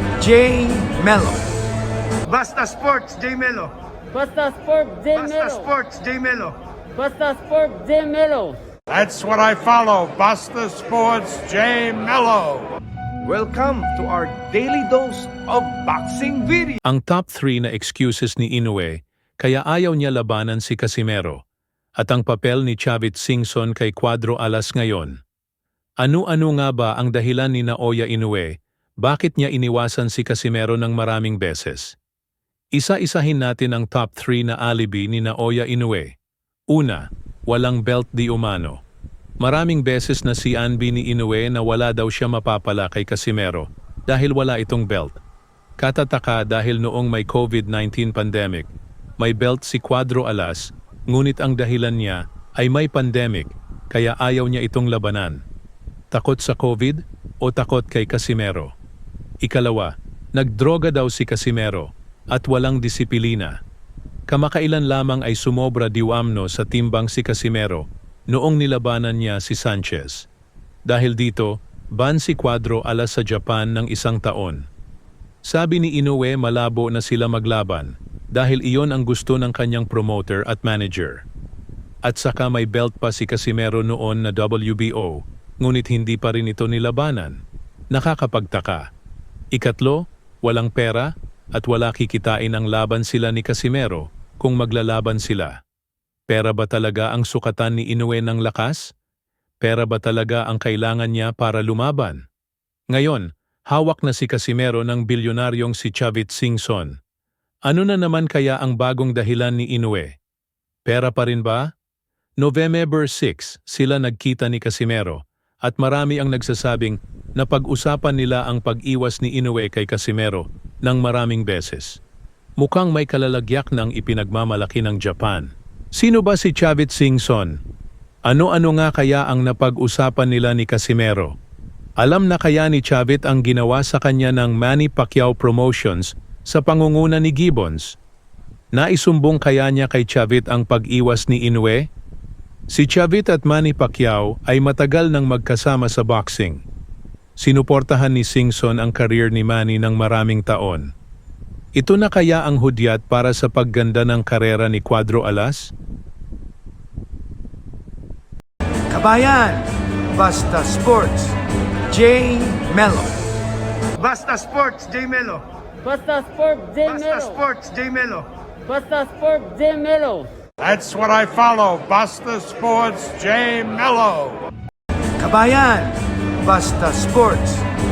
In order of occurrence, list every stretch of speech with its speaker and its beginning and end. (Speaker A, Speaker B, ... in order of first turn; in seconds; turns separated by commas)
Speaker A: 0.2-1.4, Speaker A: 2.2-3.7, Speaker A: 4.9-6.6, Speaker B: 7.4-8.5, Speaker C: 8.9-12.7, Speaker A: 13.2-16.8, Speaker D: 16.8-21.4, Speaker D: 22.0-25.2, Speaker D: 26.0-32.0, Speaker D: 32.7-36.1, Speaker D: 36.7-38.8, Speaker D: 39.4-45.2, Speaker D: 45.8-55.4, Speaker D: 56.1-58.7, Speaker D: 59.4-63.5, Speaker D: 64.3-70.3, Speaker D: 70.9-74.7, Speaker D: 75.5-81.2, Speaker D: 82.0-87.4, Speaker D: 87.9-88.8, Speaker D: 89.5-95.5, Speaker D: 96.3-98.9, Speaker D: 99.6-102.2, Speaker D: 102.9-107.0, Speaker D: 107.7-110.1, Speaker D: 110.9-111.7, Speaker D: 112.4-122.0, Speaker D: 122.6-127.6, Speaker D: 128.3-131.3, Speaker D: 132.0-138.0, Speaker D: 138.7-141.8, Speaker D: 142.7-146.6, Speaker D: 147.4-150.9, Speaker D: 151.8-155.7, Speaker A: 158.9-161.4, Speaker A: 161.9-163.1, Speaker A: 163.9-165.4, Speaker A: 166.4-168.3, Speaker B: 169.0-170.2, Speaker C: 170.6-174.4, Speaker A: 175.2-177.6